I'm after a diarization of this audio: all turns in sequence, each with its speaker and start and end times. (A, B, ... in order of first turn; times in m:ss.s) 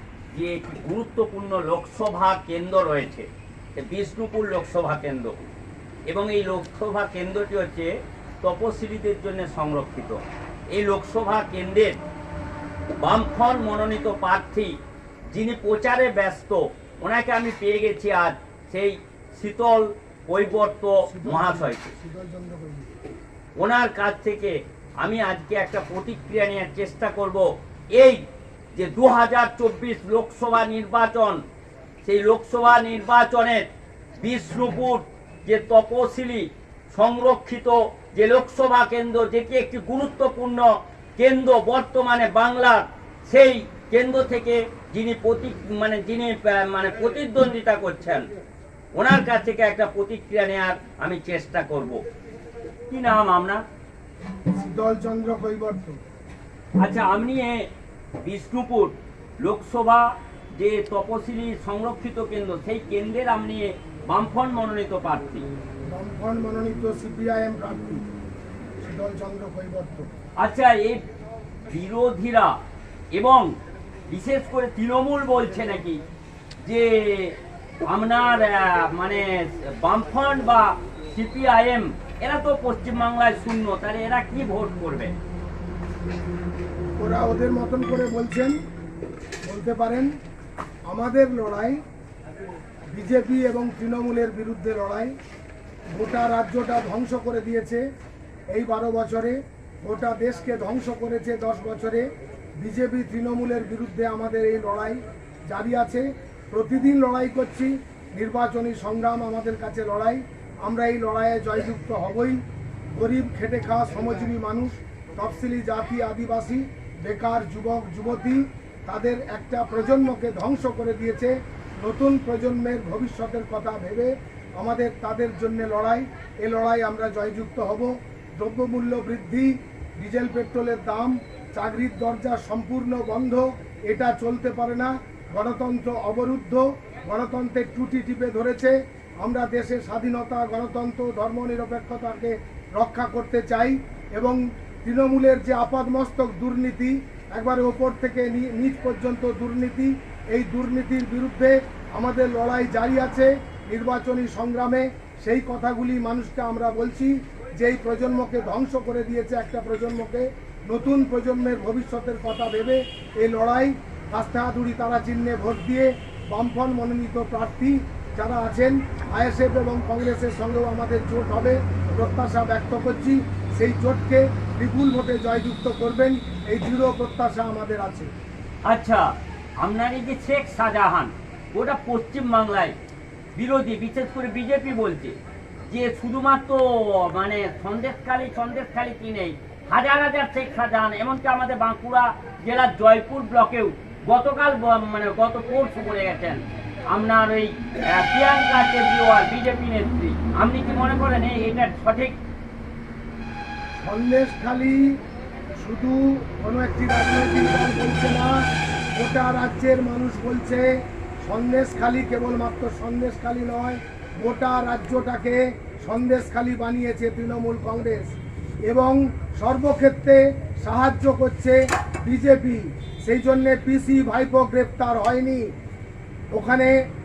0:00.3-0:05.3 A
0:06.1-0:07.9 A
0:08.4-0:10.2 A
0:10.7-0:12.0 A
0:13.0-0:14.8 A
0:15.3-0:21.9 A
0:21.0-0:23.0 B
0:23.6-0:28.2 A
0:28.7-0:31.4 A
0:32.0-0:33.7 A
0:34.2-0:48.3 A
0:48.9-0:52.0 A
0:52.9-0:53.6 A
0:54.5-0:56.0 B
0:56.8-1:05.4 A
1:05.9-1:08.0 B
1:08.8-1:10.1 B
1:10.4-1:11.0 A
1:11.7-1:12.6 A
1:13.1-1:13.5 A
1:14.1-1:16.0 A
1:16.6-1:25.1 A
1:27.0-1:28.6 B
1:29.4-1:30.1 B
1:30.9-1:31.8 B
1:32.9-1:35.1 B
1:35.9-1:37.8 B
1:38.5-1:42.1 B
1:42.6-1:52.4 B
1:52.9-2:58.1 B
2:58.6-3:02.8 A
3:03.3-3:05.2 A
3:05.7-3:22.2 A
3:23.8-3:25.0 B
3:25.6-3:28.4 B
3:29.0-3:30.7 B
3:31.2-3:38.1 B
3:38.7-3:45.5 B
3:46.3-3:46.7 B